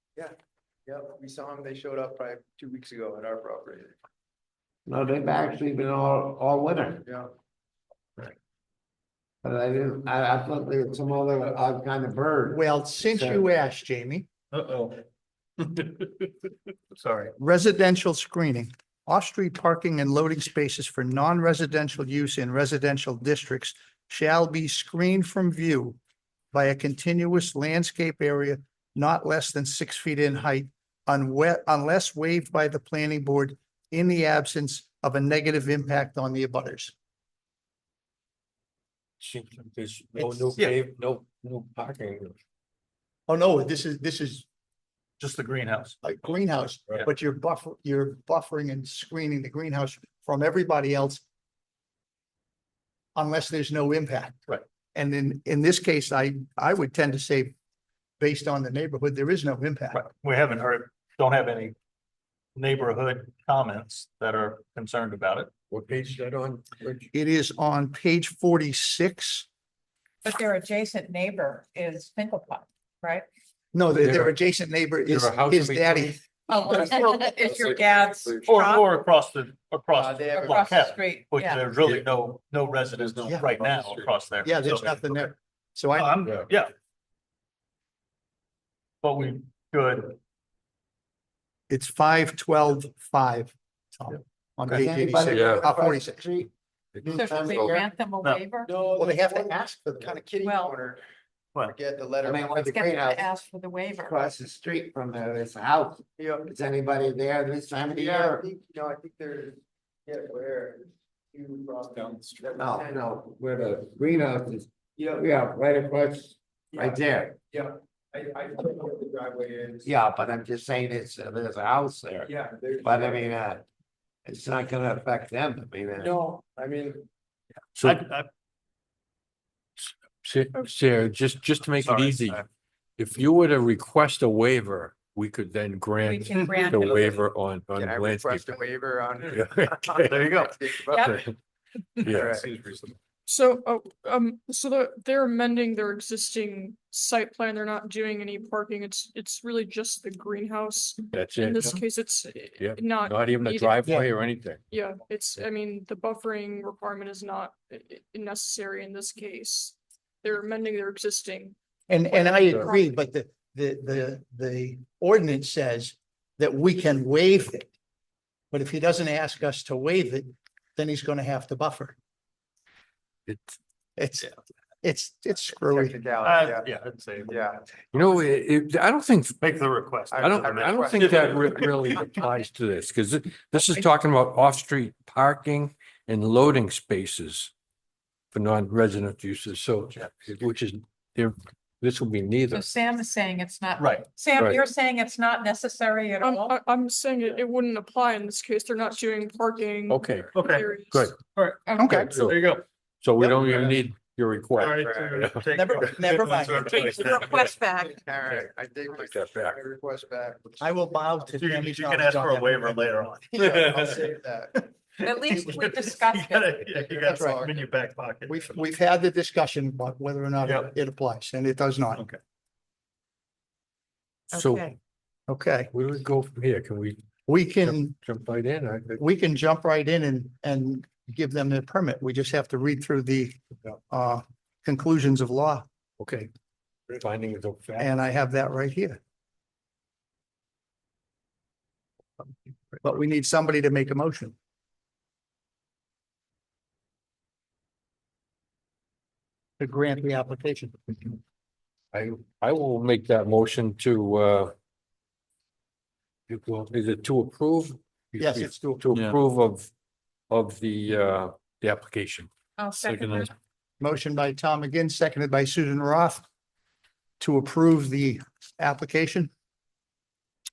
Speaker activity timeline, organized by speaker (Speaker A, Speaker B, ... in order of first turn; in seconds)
Speaker A: 0.8-3.9, 79.9-80.9, 98.6-101.0, 101.6-102.8, 106.2-106.5, 107.9-113.0, 116.7-117.0, 117.5-119.9, 122.2-123.3, 126.0-127.0, 136.6-137.2, 137.7-141.2, 142.0-142.8, 175.7-176.7, 177.2-177.6, 180.1-181.6, 204.6-205.2, 207.0-210.7, 213.3-214.7, 215.2-215.6, 216.6-217.7
Speaker B: 4.9-7.1, 9.4-13.4, 94.7-97.9, 102.2-103.4, 104.0-108.4, 112.5-117.4, 119.8-123.7, 124.2-126.1, 153.8-154.1
Speaker C: 12.5-14.3, 17.4-26.0, 26.5-36.9, 40.1-40.4, 43.3-44.5, 46.0-51.2, 53.1-57.5, 58.2-60.0, 67.1-69.5, 73.7-76.8, 83.3-83.6, 84.4-86.1, 91.7-96.2, 99.0-99.7, 161.9-167.7, 168.5-171.9, 174.0-174.3, 174.8-175.9, 201.8-202.1, 205.5-206.9, 210.6-213.1, 217.1-217.4, 218.3-222.1, 225.3-225.7, 227.3-227.9, 229.0-235.7, 237.8-239.0, 242.8-244.3, 249.6-251.2, 258.2-258.9, 263.8-266.2, 267.2-269.3
Speaker D: 14.5-15.0, 15.6-16.3, 16.9-17.3, 45.2-46.0, 59.9-61.8, 62.5-65.5, 78.4-85.3, 86.0-86.7, 89.0-90.2, 127.8-128.3, 131.8-132.4, 140.0-140.6, 142.0-142.7, 143.3-144.6, 146.7-147.1, 152.0-153.3, 154.7-155.3, 157.6-158.1, 176.2-177.4, 179.4-182.0, 193.8-194.1, 196.9-198.4, 199.6-202.6, 203.2-203.8, 204.6-207.5, 211.3-214.1, 215.0-218.6, 220.4-220.7
Speaker E: 39.2-42.3, 65.7-67.1, 74.0-74.3, 75.0-76.2, 76.8-78.5, 95.3-95.6, 97.3-97.7, 127.8-128.0, 129.8-132.4, 133.0-138.6, 139.2-140.4, 140.9-141.3, 142.0-142.4, 151.1-151.8, 152.6-154.6, 173.3-173.5, 177.9-179.4, 180.2-187.5, 188.3-192.7, 199.9-201.2, 202.0-202.5, 203.0-205.4, 208.4-209.6, 224.3-224.7, 225.7-227.0, 227.6-229.0, 236.0-236.3, 236.9-237.9, 251.9-254.5, 256.3-259.7, 260.3-263.3
Speaker F: 70.2-73.2, 76.5-78.9, 80.3-82.0, 97.0-98.7, 100.4-100.8, 102.6-104.2, 136.0-137.0, 140.9-141.2, 192.5-196.6, 201.7-202.0, 206.8-208.0, 215.0-216.6, 224.3-224.8, 262.6-263.3
Speaker G: 143.3-153.7, 154.7-161.5, 196.2-200.0